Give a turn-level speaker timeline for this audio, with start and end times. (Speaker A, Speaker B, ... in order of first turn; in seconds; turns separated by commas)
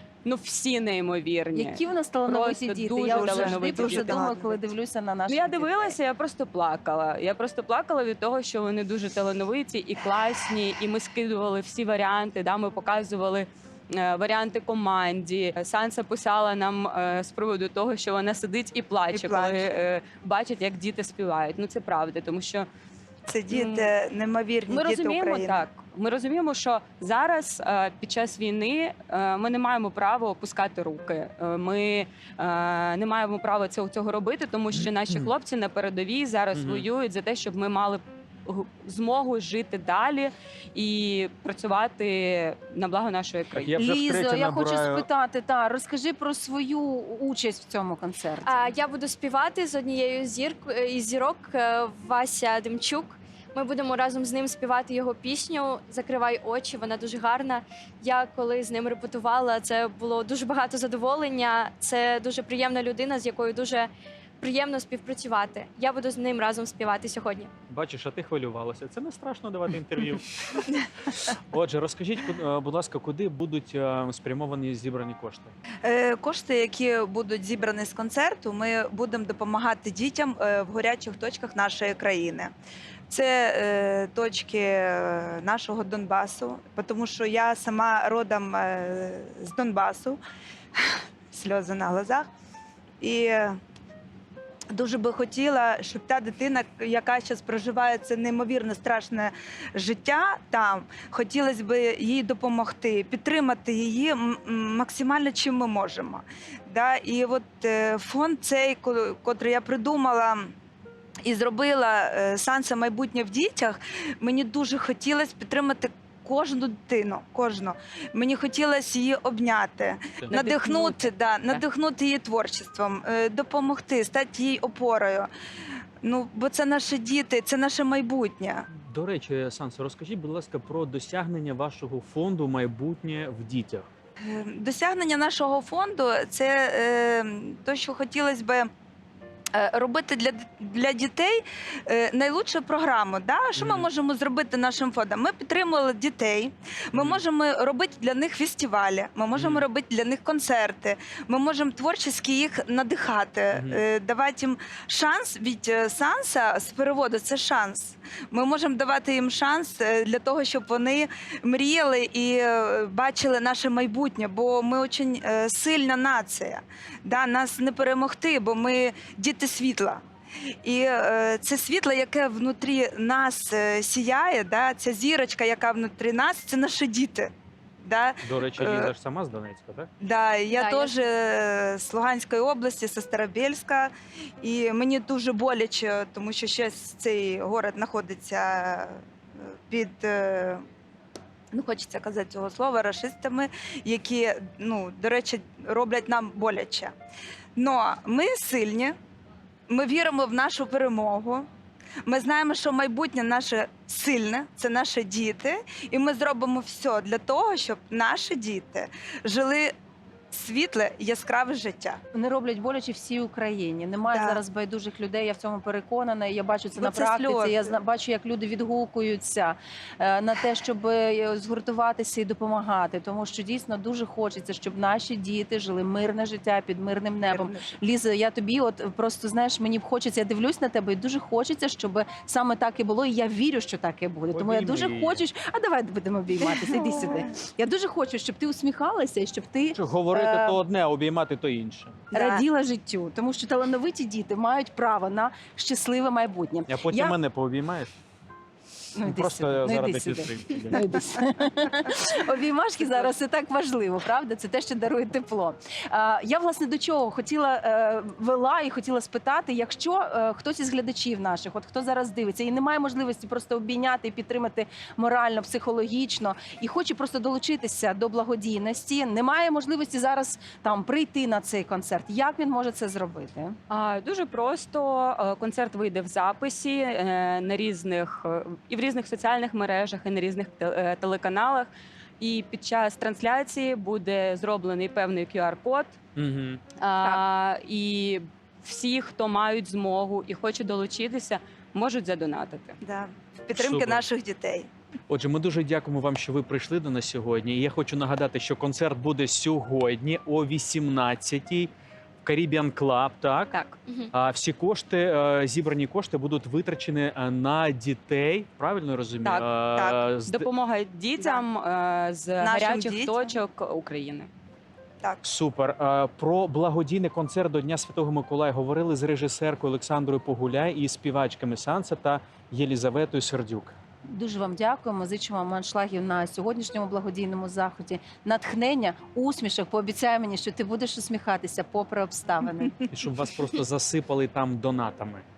Speaker A: 0.2-4.3, Speaker B: 1.5-6.0, Speaker C: 3.1-4.6, Speaker A: 5.3-22.7, Speaker C: 19.1-19.9, Speaker C: 23.3-25.6, Speaker A: 23.5-23.9, Speaker A: 24.7-43.7, Speaker D: 36.5-36.9, Speaker D: 43.6-45.1, Speaker B: 43.8-48.7, Speaker E: 48.4-67.5, Speaker D: 67.7-70.7, Speaker D: 71.4-75.5, Speaker C: 75.8-82.5, Speaker C: 83.1-90.2, Speaker C: 90.8-92.3, Speaker C: 93.0-93.6, Speaker C: 94.7-110.5, Speaker C: 111.2-125.3, Speaker A: 120.3-121.6, Speaker C: 126.0-128.7, Speaker D: 128.7-133.9, Speaker C: 134.2-138.7, Speaker C: 139.5-170.0, Speaker D: 143.6-143.9, Speaker D: 146.9-147.2, Speaker D: 149.3-149.7, Speaker D: 153.5-153.8, Speaker C: 170.6-178.9, Speaker D: 178.2-179.9, Speaker C: 180.0-190.6, Speaker E: 180.6-180.9, Speaker C: 191.5-196.9, Speaker C: 197.6-199.0, Speaker C: 199.7-201.5, Speaker C: 202.1-209.7, Speaker C: 210.3-212.0, Speaker B: 212.1-240.6, Speaker C: 214.1-214.4, Speaker C: 216.8-217.7, Speaker C: 227.2-227.7, Speaker D: 234.3-235.2, Speaker D: 239.7-242.0, Speaker C: 242.1-242.4, Speaker B: 242.1-247.2, Speaker D: 246.7-247.9, Speaker B: 249.0-273.6, Speaker D: 249.0-251.0, Speaker A: 273.7-286.0, Speaker D: 286.2-286.6, Speaker A: 286.8-292.8, Speaker C: 292.8-294.7, Speaker D: 293.5-294.0, Speaker D: 295.1-301.7, Speaker D: 302.2-303.5, Speaker E: 303.9-304.1, Speaker D: 304.1-310.5, Speaker A: 309.2-309.5, Speaker A: 310.3-314.3, Speaker C: 312.4-313.4, Speaker D: 315.2-323.8, Speaker B: 324.1-332.7, Speaker D: 332.9-335.3